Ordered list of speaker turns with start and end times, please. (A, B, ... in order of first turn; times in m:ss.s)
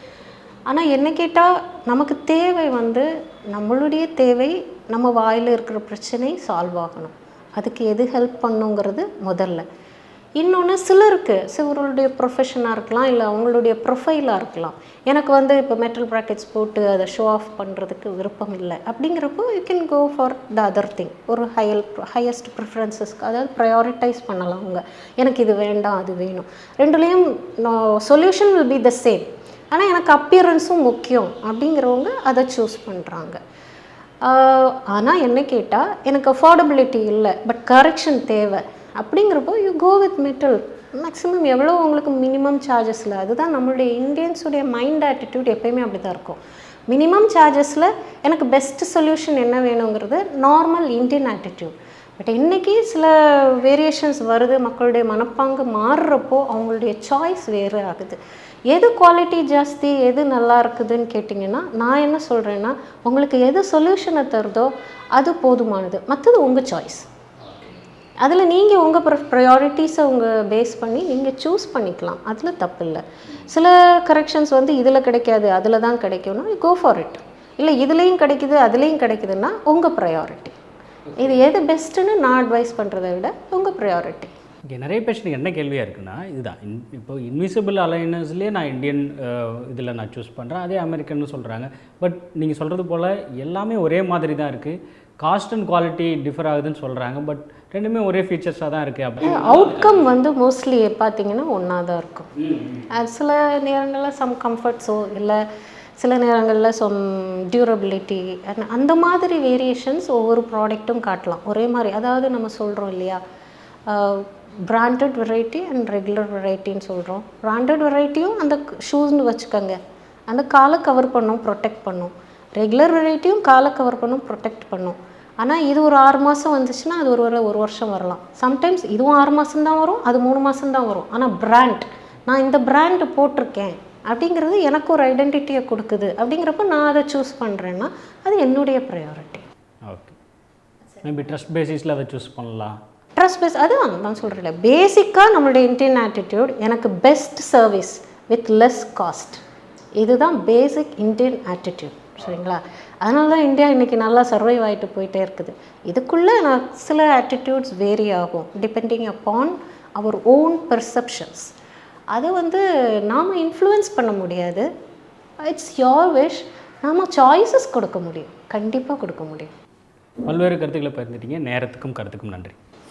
0:00.7-0:09.6 A
0:10.4-0:33.4 A
0:34.2-0:58.2 A
0:58.7-1:07.1 A
1:07.4-1:07.8 B
1:08.2-1:20.6 A
1:21.1-1:21.4 B
1:21.2-1:24.3 A
1:24.7-1:40.1 B
1:39.2-1:42.3 A
1:42.4-1:42.8 B
1:42.9-1:45.4 A
1:46.0-1:53.2 A
1:53.9-1:59.8 A
2:00.3-2:19.4 A
2:19.9-2:20.2 B
2:21.0-2:22.8 B
2:23.2-2:29.4 A
2:30.0-2:41.5 A
2:42.1-2:44.6 A
2:45.4-2:49.5 A
2:50.3-2:52.6 B